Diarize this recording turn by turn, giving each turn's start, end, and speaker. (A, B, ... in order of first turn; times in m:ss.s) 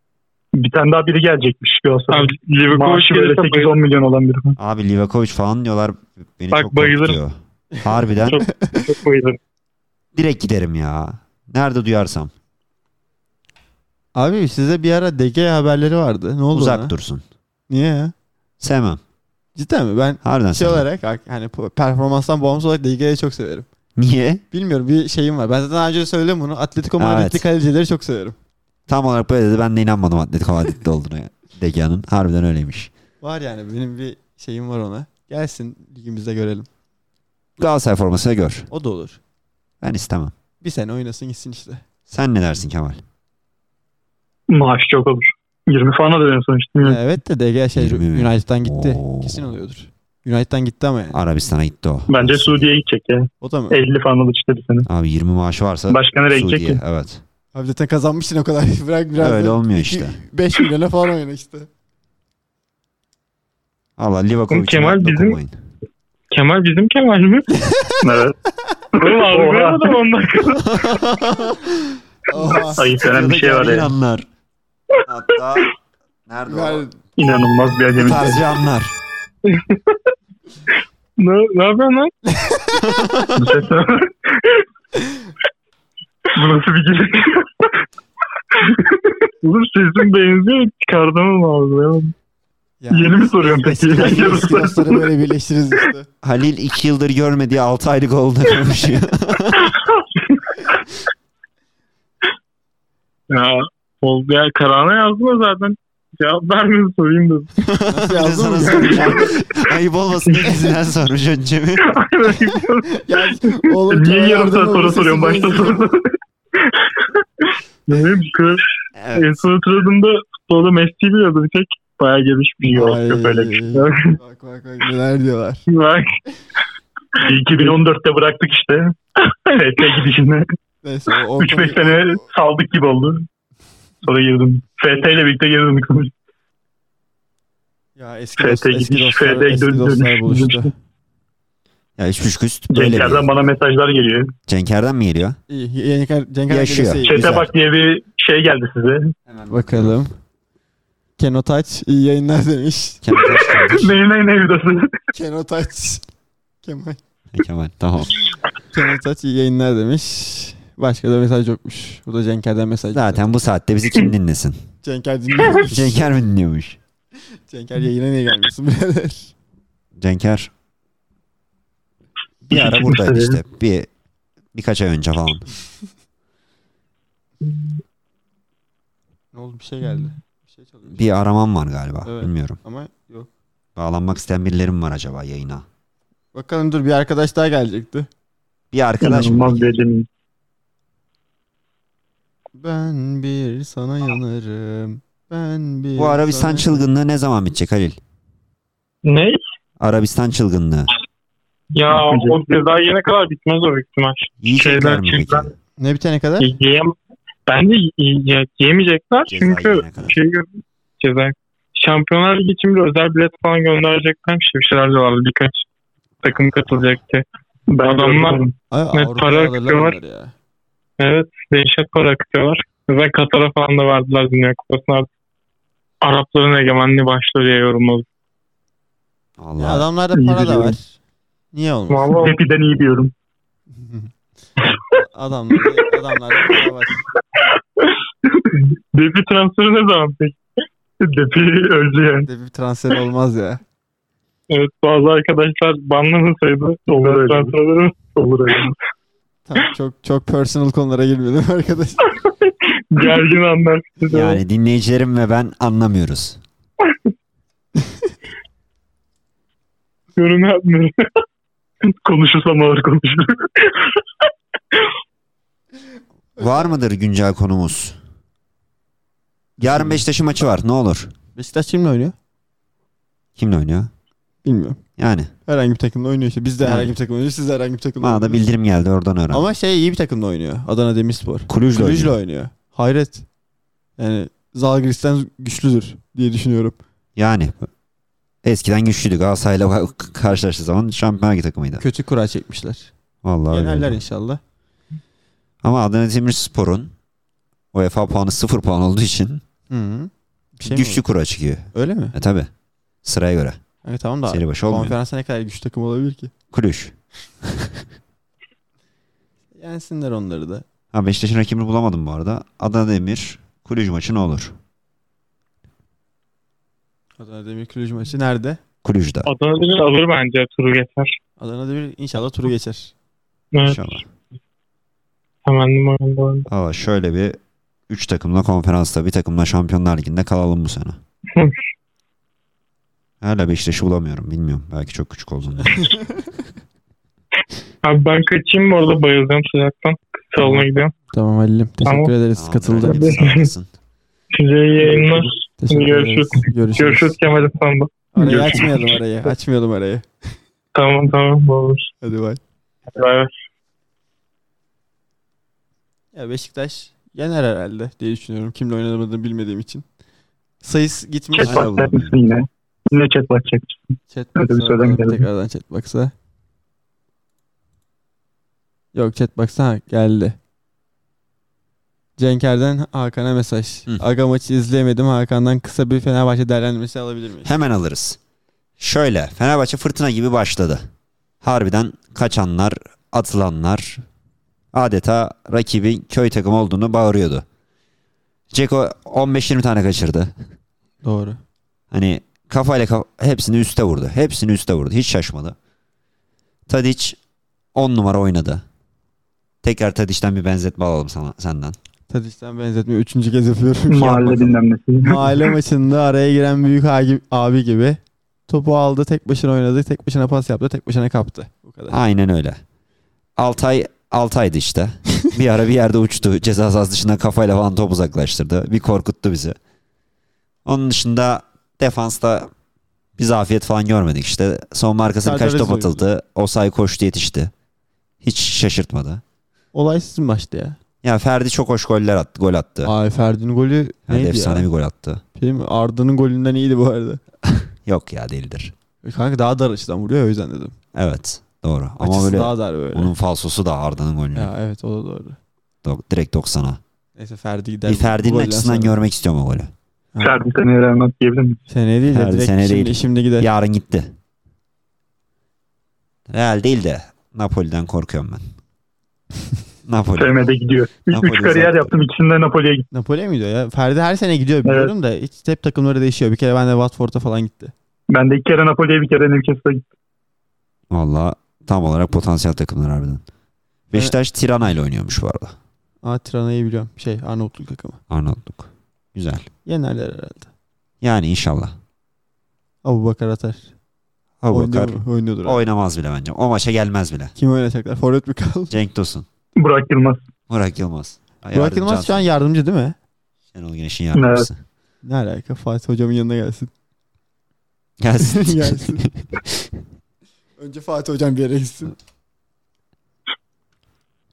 0:00.6-0:04.6 A
0:02.1-0:03.8 B
0:04.6-0:08.4 C
0:06.5-0:07.2 B
0:08.2-0:09.4 B
0:08.5-0:08.9 D
0:10.1-0:12.3 C
0:14.1-0:16.9 D
0:16.5-0:17.2 C
0:17.7-0:18.1 D
0:18.6-0:19.0 C
0:19.6-0:23.7 D
0:20.2-0:20.8 C
0:24.0-0:24.4 C
0:24.5-0:28.4 D
0:27.0-0:27.4 C
0:28.9-0:32.9 C
0:33.2-0:36.7 D
0:37.6-0:38.7 C
0:38.7-0:39.2 D
0:39.8-0:40.3 C
0:40.6-0:41.8 D
0:42.1-0:43.0 C
0:44.5-0:47.0 A
0:46.8-0:51.2 D
0:47.7-0:49.5 C
0:51.1-0:52.7 C
0:52.1-0:54.9 A
0:53.4-0:53.8 D
0:54.8-0:57.2 C
0:55.9-0:56.8 A
0:57.5-1:01.7 D
0:59.2-1:00.2 C
1:04.0-1:05.6 C
1:04.5-1:05.4 B
1:06.3-1:07.5 B
1:08.0-1:08.4 A
1:08.9-1:10.0 A
1:09.0-1:10.8 B
1:10.7-1:11.3 C
1:12.3-1:12.8 D
1:12.8-1:13.9 A
1:12.8-1:14.2 C
1:15.1-1:15.7 C
1:16.3-1:16.9 C
1:16.5-1:16.9 D
1:17.2-1:18.4 A
1:17.9-1:18.9 C
1:19.5-1:19.8 B
1:21.2-1:22.1 B
1:22.3-1:23.4 D
1:23.4-1:24.1 A
1:26.3-1:27.5 A
1:29.4-1:32.1 B
1:32.8-1:36.1 D
1:32.9-1:35.0 A
1:36.2-1:39.7 C
1:43.3-1:47.5 B
1:47.9-1:49.4 D
1:47.9-1:51.8 C
1:52.0-1:52.8 B
1:52.9-1:55.9 D
1:53.9-1:56.0 A
1:57.9-1:58.6 B
1:58.9-1:59.4 C
1:59.1-2:02.6 B
2:02.6-2:03.6 A
2:02.7-2:05.6 D
2:03.7-2:04.0 B
2:05.7-2:06.1 B
2:07.2-2:08.9 A
2:09.5-2:10.4 A
2:10.8-2:12.2 D
2:11.4-2:13.2 A
2:14.0-2:16.1 A
2:18.0-2:20.7 D
2:18.4-2:20.7 A
2:22.0-2:23.3 C
2:22.7-2:24.3 A
2:24.5-2:25.4 C
2:25.5-2:27.4 D
2:26.5-2:27.5 C
2:27.0-2:29.1 A
2:29.3-2:30.0 C
2:29.5-2:30.2 D
2:31.2-2:33.2 D
2:33.0-2:34.0 C
2:33.7-2:34.9 A
2:35.1-2:36.0 D
2:36.6-2:37.0 D
2:37.3-2:38.2 C
2:38.7-2:43.3 D
2:42.9-2:44.6 C
2:44.8-2:46.1 D
2:45.6-2:46.8 C
2:47.5-2:49.3 D
2:50.0-2:50.5 C
2:52.5-2:53.9 C
2:52.5-2:53.4 A
2:54.5-2:55.5 C
2:59.3-3:01.0 D
3:00.9-3:02.6 C
3:02.0-3:03.3 D
3:03.8-3:05.6 C
3:06.3-3:08.1 D
3:08.7-3:09.7 C
3:09.0-3:10.1 A
3:12.6-3:16.8 D
3:16.0-3:18.0 C
3:19.0-3:19.4 B
3:19.8-3:20.9 C
3:21.7-3:25.5 B
3:21.9-3:22.4 A
3:24.4-3:25.5 C
3:25.8-3:26.5 D
3:26.4-3:26.9 B
3:27.5-3:35.6 B
3:29.3-3:30.2 C
3:36.2-3:37.2 B
3:37.7-3:38.5 A
3:37.8-3:38.4 B
3:38.7-3:40.3 D
3:38.9-3:40.0 B
3:41.0-3:45.1 B
3:46.0-3:48.0 B
3:49.4-3:49.9 C
3:49.6-3:51.0 D
3:50.1-3:50.8 A
3:51.5-3:52.2 D
3:51.9-3:52.4 B
3:52.2-3:53.1 A
3:53.7-3:54.1 D
3:54.9-3:57.0 D
3:58.9-4:00.4 B
4:01.0-4:02.3 A
4:02.2-4:03.6 D
4:04.5-4:08.0 B
4:06.9-4:07.6 A
4:08.1-4:08.7 A
4:09.4-4:12.0 D
4:12.9-4:14.4 B
4:13.0-4:13.3 A
4:14.1-4:16.4 C
4:20.2-4:21.0 B
4:21.9-4:23.5 A
4:26.4-4:28.0 C
4:29.6-4:30.0 D
4:29.6-4:31.1 C
4:31.4-4:32.1 D
4:33.4-4:33.9 C
4:34.4-4:34.8 D
4:35.0-4:35.3 C
4:35.4-4:38.4 D
4:36.6-4:36.9 C
4:38.0-4:39.5 C
4:39.3-4:43.2 D
4:41.5-4:42.2 C
4:44.0-4:46.8 D
4:47.2-4:47.7 C
4:48.4-4:51.8 C
4:51.8-4:52.9 D
4:53.2-4:54.0 C
4:53.5-4:54.4 D
4:55.6-4:56.9 C
4:57.7-4:59.4 C
4:59.7-5:01.0 D
5:00.6-5:02.5 C
5:01.7-5:02.1 D
5:03.0-5:03.6 C
5:03.8-5:06.3 D
5:04.3-5:05.0 C
5:06.5-5:07.8 C
5:09.6-5:10.6 D
5:10.9-5:14.6 C
5:17.2-5:18.6 D
5:18.8-5:19.3 C
5:19.2-5:21.1 B
5:21.4-5:22.9 D
5:23.5-5:24.0 B
5:23.6-5:24.0 C
5:25.4-5:26.5 B
5:26.5-5:31.0 C
5:33.2-5:35.9 C
5:35.8-5:36.0 D
5:37.8-5:40.9 B
5:41.1-5:43.2 D
5:41.8-5:42.1 B
5:42.4-5:43.7 C
5:42.8-5:43.5 B
5:44.3-5:48.9 B
5:44.8-5:45.2 A
5:45.6-5:47.2 D
5:48.1-5:50.0 D
5:50.7-5:51.9 B
5:52.0-5:52.4 D
5:52.9-5:53.3 B
5:56.1-5:59.8 D
6:00.6-6:01.7 D
6:01.3-6:05.2 A
6:01.4-6:02.2 C
6:04.1-6:06.1 D
6:08.9-6:10.4 D
6:12.2-6:17.5 D
6:17.4-6:18.2 C
6:18.8-6:20.9 C
6:21.4-6:24.0 C
6:24.7-6:27.4 C
6:28.5-6:30.3 C
6:31.0-6:31.4 D
6:31.9-6:35.6 C
6:36.7-6:37.2 C
6:37.7-6:38.6 C
6:39.6-6:41.8 C
6:42.1-6:52.0 D
6:43.9-6:45.4 A
6:51.9-6:52.6 C
6:53.4-6:59.6 C
7:00.6-7:02.5 C
7:03.2-7:07.5 C
7:05.2-7:06.0 D
7:08.2-7:09.2 C
7:09.7-7:10.8 D
7:11.0-7:12.9 C
7:12.8-7:14.7 D
7:14.1-7:15.2 C
7:15.4-7:17.2 D
7:17.6-7:18.7 C
7:19.0-7:20.7 D
7:20.9-7:24.5 C
7:22.0-7:23.1 D
7:24.3-7:25.4 D
7:25.8-7:26.8 C
7:27.2-7:29.0 D
7:27.8-7:29.7 C
7:30.1-7:30.4 D
7:30.2-7:31.6 A
7:31.7-7:33.5 D
7:32.0-7:34.1 C
7:36.3-7:38.5 C
7:39.8-7:40.3 C
7:40.2-7:42.8 A
7:41.1-7:41.9 C
7:42.9-7:47.7 D
7:44.6-7:44.9 A
7:48.1-7:49.8 A
7:50.9-7:53.2 C
7:53.9-7:55.6 C
7:56.0-7:58.0 D
7:58.1-7:59.5 C
7:59.6-8:00.5 D
8:01.0-8:01.8 C
8:02.8-8:03.7 D
8:04.4-8:07.3 C
8:04.5-8:05.6 D
8:07.4-8:08.7 D
8:08.7-8:09.2 C
8:09.6-8:10.2 A
8:10.5-8:12.3 C
8:11.5-8:13.0 D
8:13.5-8:14.6 C
8:14.1-8:14.5 A
8:15.0-8:16.7 D
8:18.0-8:19.6 C
8:18.2-8:19.0 D
8:20.6-8:22.0 D